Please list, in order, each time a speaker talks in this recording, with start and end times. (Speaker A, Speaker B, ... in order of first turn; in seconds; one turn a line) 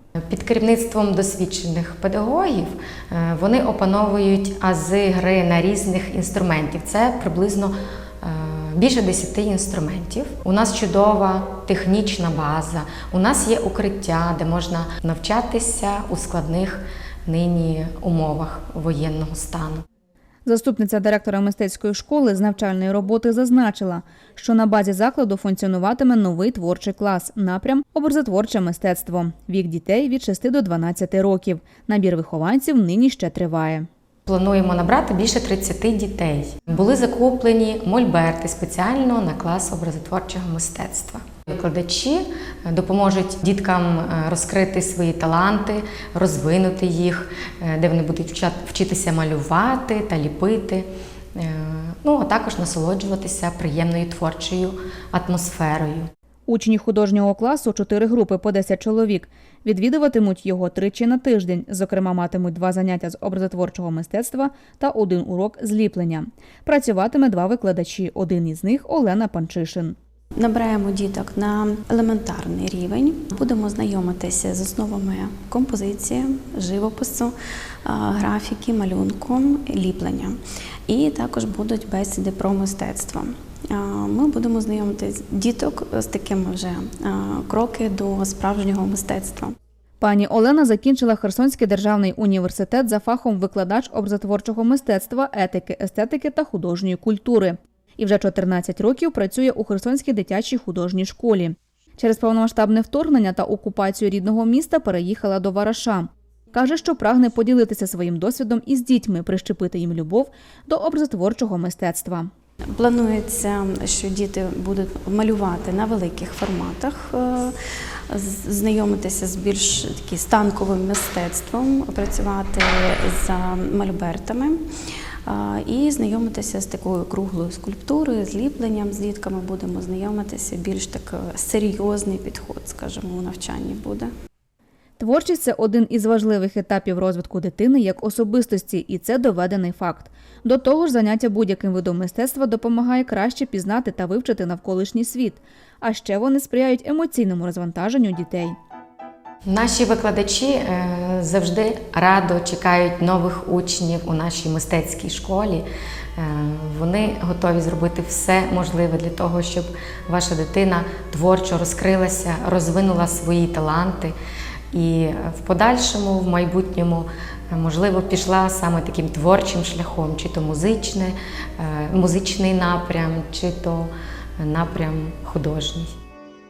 Speaker A: 0.3-19.8
Speaker B: 20.5-33.9
Speaker A: 34.3-56.1
Speaker B: 56.5-70.0
Speaker C: 70.4-89.5
Speaker B: 90.0-112.3
Speaker C: 112.7-117.6
Speaker C: 118.1-124.6
Speaker C: 125.3-134.1
Speaker B: 135.0-148.6
Speaker A: 149.5-155.7
Speaker A: 156.2-164.2
Speaker A: 164.7-175.9